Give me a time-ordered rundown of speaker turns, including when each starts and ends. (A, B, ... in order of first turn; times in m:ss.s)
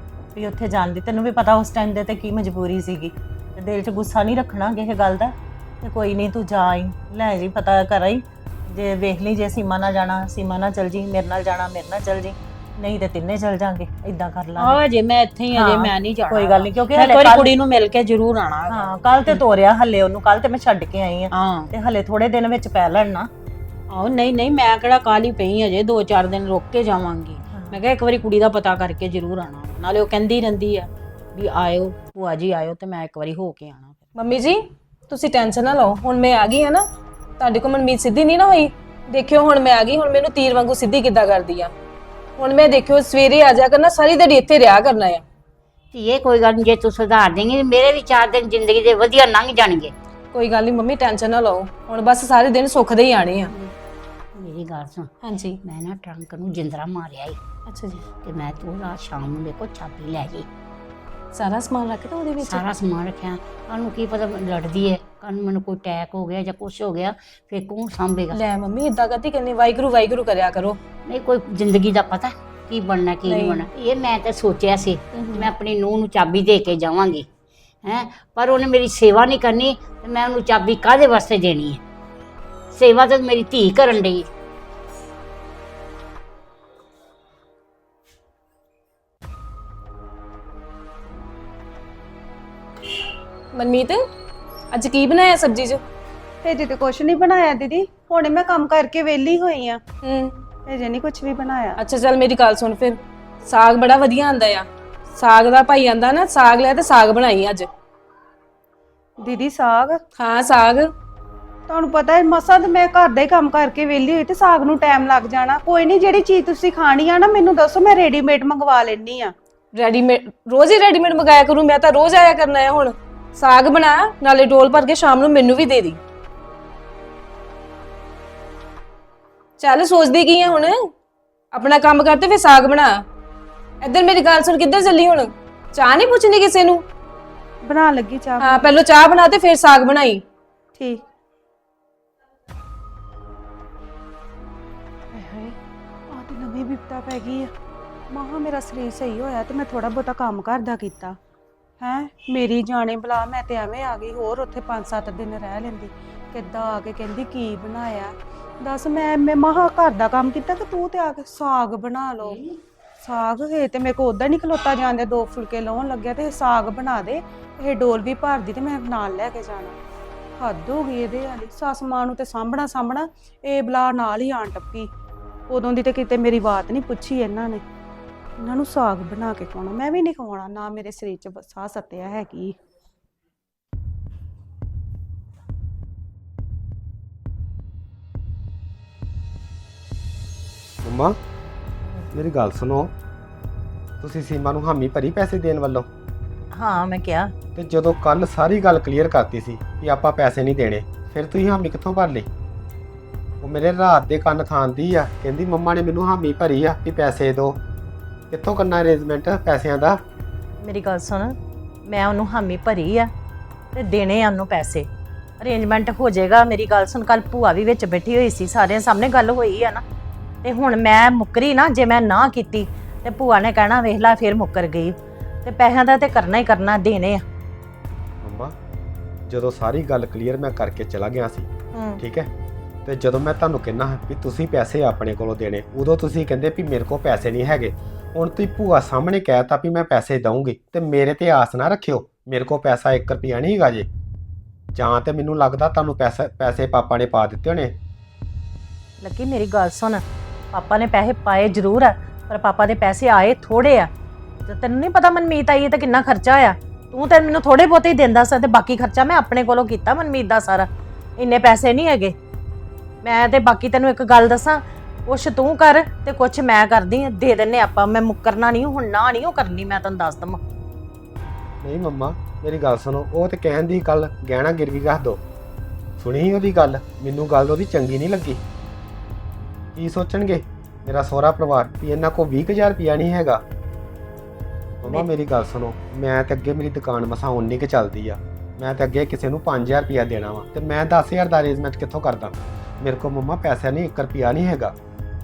0:00.3-0:14.8 A
0:14.6-0:19.4 B
0:15.6-0:17.5 A
0:18.7-0:23.3 A
0:21.3-0:21.7 B
0:23.9-0:34.0 B
0:27.5-0:27.8 A
0:34.1-0:36.8 C
0:37.4-0:41.7 C
0:42.4-0:45.2 C
0:45.9-0:49.9 D
0:50.3-0:53.5 C
0:54.4-0:55.1 D
0:55.2-0:55.6 C
0:55.6-0:57.4 D
0:57.7-0:58.0 C
0:58.2-1:00.5 D
1:01.3-1:02.6 C
1:02.4-1:08.4 D
1:08.3-1:10.8 C
1:11.1-1:17.3 D
1:13.2-1:13.7 C
1:17.8-1:21.8 D
1:22.7-1:24.3 D
1:33.5-1:34.0 C
1:34.7-1:35.8 C
1:36.4-1:39.8 E
1:40.0-1:40.4 C
1:40.7-1:41.8 E
1:41.8-1:47.7 C
1:49.2-1:50.0 E
1:50.2-1:50.9 C
1:51.7-1:59.3 E
1:59.8-2:06.0 C
2:09.6-2:10.8 C
2:11.5-2:13.0 C
2:13.8-2:16.8 C
2:17.6-2:18.7 E
2:18.4-2:20.2 C
2:20.8-2:21.0 E
2:25.1-2:25.6 E
2:26.1-2:27.5 E
2:28.1-2:31.2 E
2:31.8-2:42.4 E
2:43.0-2:49.8 E
2:50.4-2:54.9 E
2:55.5-2:57.6 E
2:58.4-3:02.6 E
3:10.8-3:11.2 F
3:12.1-3:12.9 F
3:14.0-3:15.9 F
3:16.5-3:17.3 A
3:17.6-3:22.3 F
3:23.4-3:27.6 F
3:28.3-3:30.0 F
3:30.6-3:33.1 A
3:33.7-3:34.9 A
3:35.4-3:39.8 A
3:40.4-3:47.2 A
3:48.2-3:48.6 F
3:49.3-3:52.3 F
3:51.7-3:52.0 A
3:52.8-4:03.9 F
4:04.8-4:07.8 F
4:09.0-4:13.9 A
4:14.4-4:22.1 A
4:23.0-4:30.4 A
4:31.6-4:35.2 F
4:36.0-4:38.4 F
4:39.8-4:43.4 F
4:44.8-4:54.7 F